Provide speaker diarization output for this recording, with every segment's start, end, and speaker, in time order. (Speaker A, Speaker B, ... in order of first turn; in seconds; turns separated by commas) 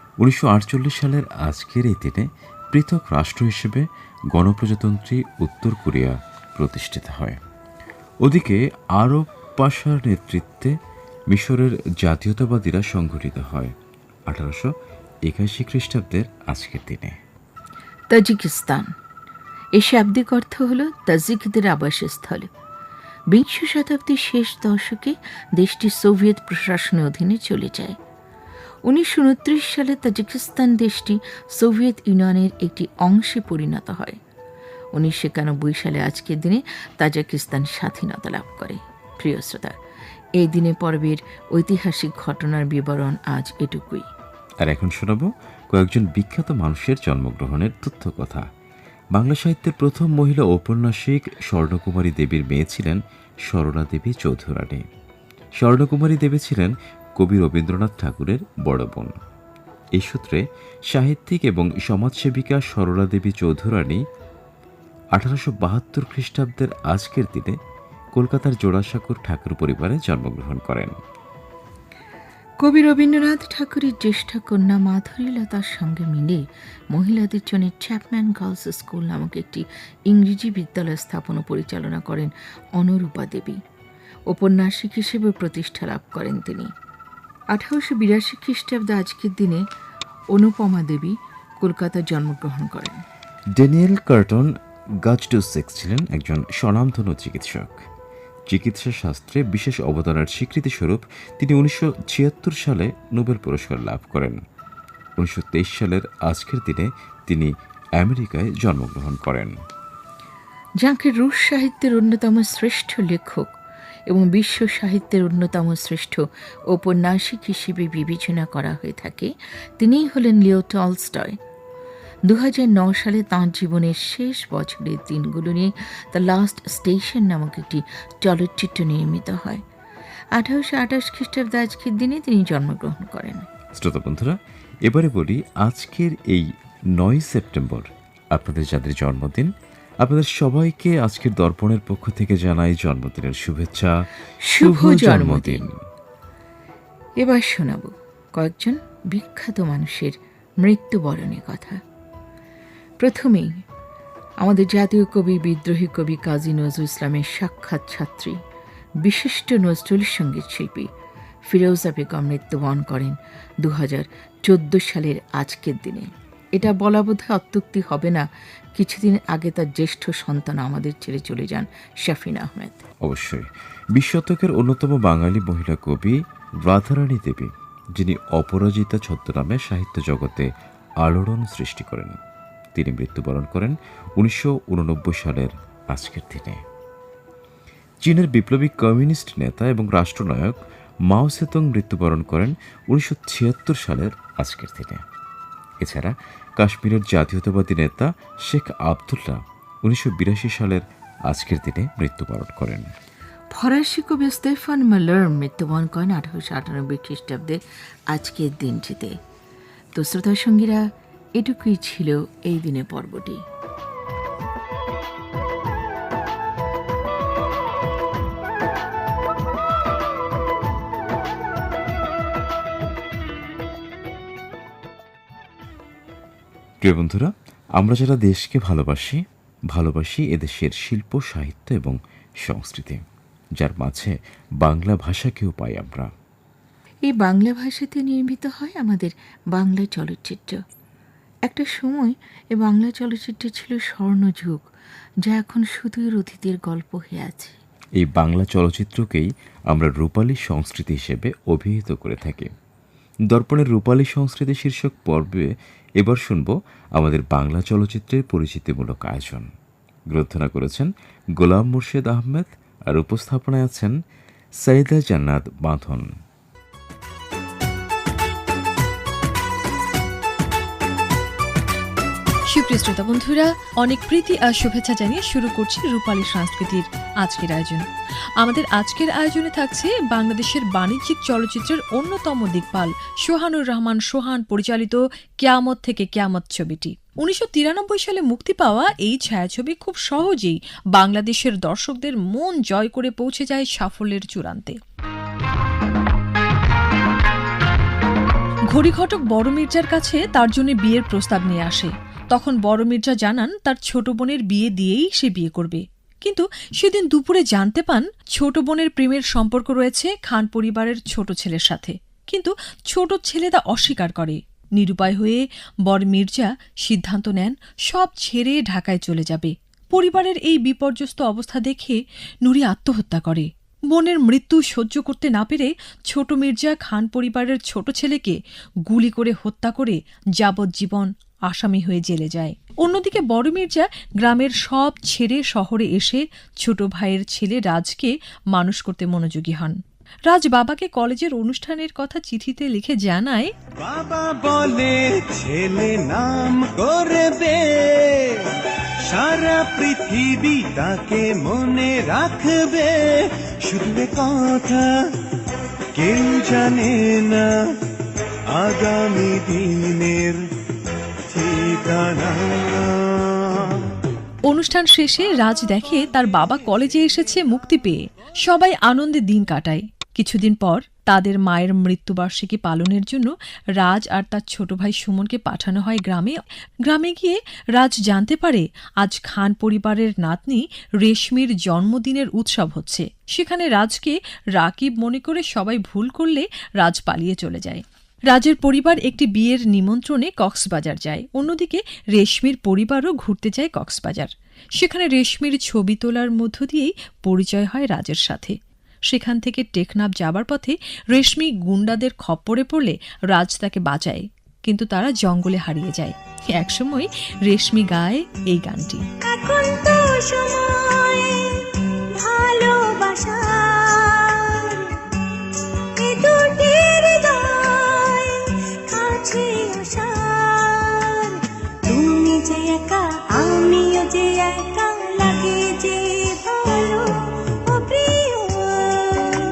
Speaker A: 0.2-7.4, Speaker A: 8.2-10.7, Speaker A: 11.3-13.8, Speaker A: 14.3-14.7, Speaker A: 15.3-17.2, Speaker B: 18.1-18.9, Speaker B: 19.8-22.5, Speaker B: 23.3-28.0, Speaker B: 28.9-34.2, Speaker B: 35.0-39.8, Speaker B: 40.4-44.1, Speaker A: 44.6-48.5, Speaker A: 49.1-54.8, Speaker A: 55.6-59.1, Speaker A: 60.0-64.0, Speaker A: 65.2-67.5, Speaker A: 68.2-71.0, Speaker B: 72.6-83.6, Speaker B: 84.3-86.7, Speaker B: 87.5-89.6, Speaker B: 90.3-93.0, Speaker A: 93.6-94.5, Speaker A: 95.0-97.8, Speaker A: 98.5-104.4, Speaker A: 105.2-109.5, Speaker B: 110.8-113.5, Speaker B: 114.1-121.4, Speaker B: 122.3-129.6, Speaker B: 130.4-133.5, Speaker A: 133.8-143.9, Speaker B: 144.5-145.7, Speaker A: 144.6-145.8, Speaker B: 147.2-151.8, Speaker B: 153.0-153.5, Speaker B: 154.4-158.4, Speaker B: 159.0-160.9, Speaker B: 161.5-172.8, Speaker A: 173.0-180.5, Speaker A: 181.0-182.2, Speaker A: 182.8-186.6, Speaker A: 188.0-195.0, Speaker A: 195.8-202.9, Speaker B: 203.5-207.6, Speaker B: 208.1-209.2, Speaker B: 209.9-210.8, Speaker B: 211.4-213.4, Speaker A: 226.8-233.0, Speaker A: 233.6-236.1, Speaker B: 237.1-240.6, Speaker B: 241.5-244.7, Speaker B: 245.2-247.6, Speaker A: 248.0-252.5, Speaker A: 253.3-259.5, Speaker A: 260.1-263.9, Speaker A: 264.6-266.1, Speaker C: 272.5-277.9, Speaker C: 278.4-294.8, Speaker C: 298.7-339.8, Speaker C: 340.3-343.5, Speaker D: 343.8-348.5, Speaker D: 349.1-354.9, Speaker D: 356.0-357.5, Speaker D: 358.5-360.4, Speaker D: 361.3-363.9, Speaker C: 364.5-398.6, Speaker C: 399.1-409.0, Speaker E: 409.2-411.6, Speaker E: 412.2-414.9, Speaker E: 416.0-427.1, Speaker E: 427.7-429.3